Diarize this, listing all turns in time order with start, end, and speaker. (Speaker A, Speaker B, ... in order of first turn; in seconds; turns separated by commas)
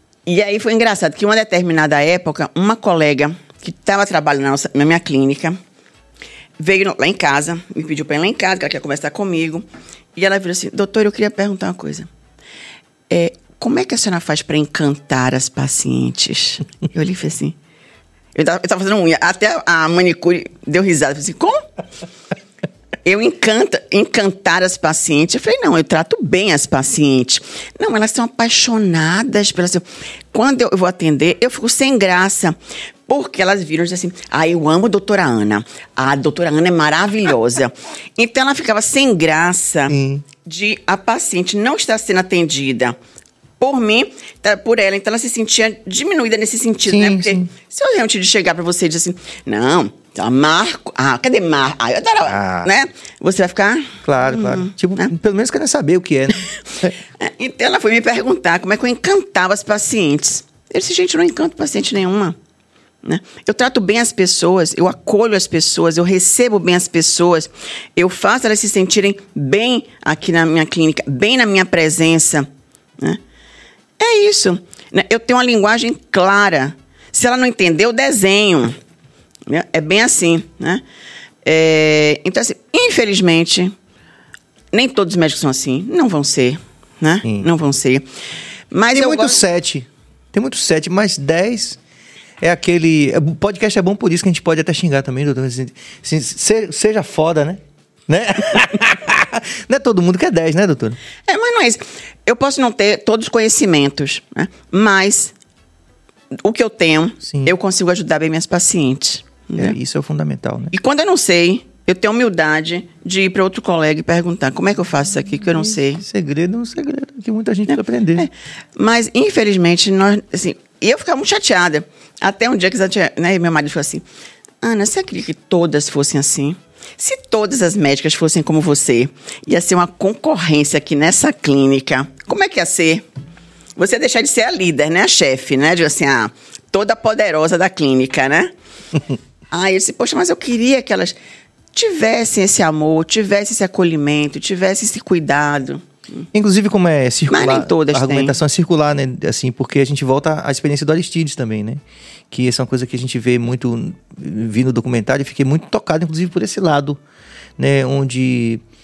Speaker A: 0.3-5.6, Speaker A: 6.6-12.1, Speaker A: 13.1-17.6, Speaker A: 18.4-21.6, Speaker A: 23.1-32.6, Speaker A: 33.1-43.0, Speaker B: 39.9-40.2, Speaker A: 43.6-55.1, Speaker B: 46.9-47.5, Speaker B: 52.3-52.7, Speaker B: 54.0-56.9, Speaker A: 57.2-62.4, Speaker A: 63.0-72.5, Speaker A: 74.0-78.8, Speaker A: 79.5-80.8, Speaker A: 81.4-83.8, Speaker A: 84.7-88.1, Speaker B: 87.2-87.5, Speaker A: 88.7-89.4, Speaker B: 88.9-91.8, Speaker B: 92.4-101.0, Speaker A: 101.3-105.3, Speaker A: 106.4-109.7, Speaker B: 107.2-107.5, Speaker B: 109.6-110.7, Speaker A: 110.7-116.0, Speaker B: 115.5-118.3, Speaker A: 117.7-124.0, Speaker A: 124.6-133.1, Speaker A: 133.8-138.5, Speaker A: 139.5-141.2, Speaker A: 141.7-146.3, Speaker B: 146.3-157.0, Speaker A: 147.3-148.3, Speaker B: 157.6-158.6